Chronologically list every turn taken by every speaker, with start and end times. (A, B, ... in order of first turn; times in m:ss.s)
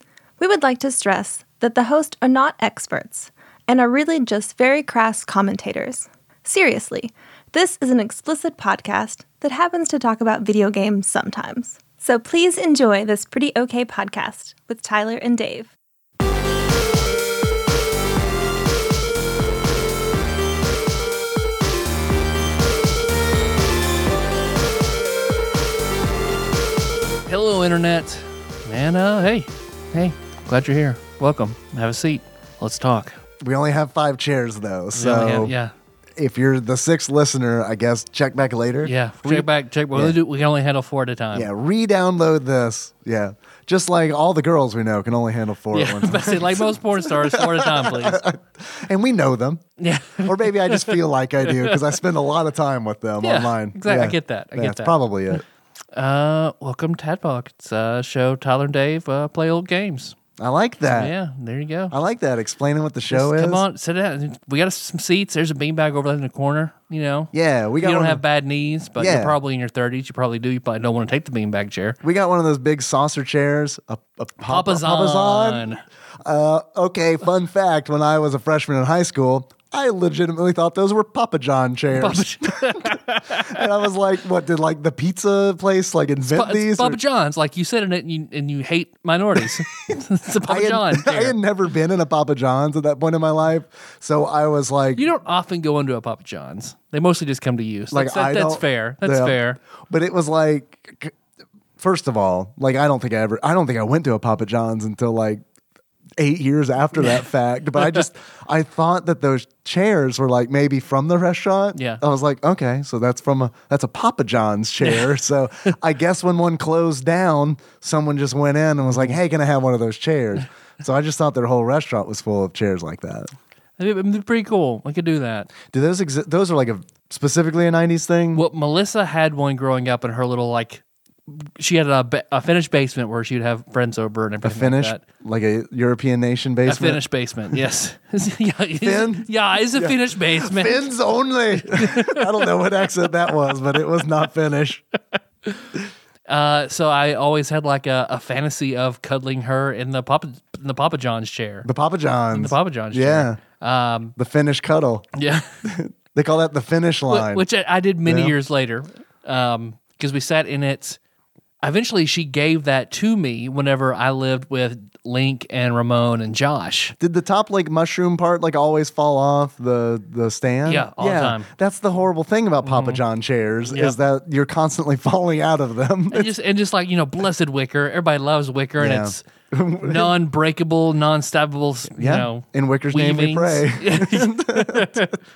0:00.4-0:15.7 A
0:27.2-0:33.1 B
0:33.4-0:35.5 C
0:34.9-0:35.7 B
0:36.2-0:40.2 C
0:38.8-0:41.5 B
0:41.3-0:49.6 C
0:45.7-0:48.2 B
0:49.8-0:51.8 B
0:50.2-0:55.4 C
0:53.2-0:54.9 B
0:55.9-1:00.2 B
1:00.4-1:01.1 C
1:00.9-1:01.9 B
1:01.9-1:03.6 C
1:03.1-1:12.0 B
1:07.3-1:08.2 C
1:09.0-1:09.4 C
1:12.0-1:15.7 C
1:14.4-1:15.8 B
1:16.2-1:27.0 C
1:21.9-1:23.9 B
1:26.3-1:31.4 B
1:30.4-1:35.0 C
1:35.0-1:39.6 B
1:37.9-1:41.1 C
1:41.8-1:45.4 C
1:46.2-2:03.3 C
1:51.7-1:52.0 B
2:03.8-2:05.5 B
2:05.7-2:08.4 C
2:08.3-2:15.0 B
2:14.4-2:17.0 C
2:16.6-2:20.9 B
2:18.8-2:24.8 C
2:21.6-2:22.5 B
2:23.3-2:23.5 B
2:25.4-2:31.7 B
2:31.6-2:33.4 C
2:32.3-2:34.1 B
2:34.2-2:35.0 C
2:35.2-2:35.5 B
2:35.6-2:37.4 C
2:37.1-2:41.0 B
2:38.0-2:38.4 C
2:41.6-2:47.0 B
2:47.0-2:56.3 C
2:50.6-2:51.5 B
2:52.6-2:53.0 B
2:53.7-2:54.0 B
2:56.1-2:59.2 B
2:58.8-3:00.1 C
2:59.8-3:05.2 B
3:01.9-3:05.1 C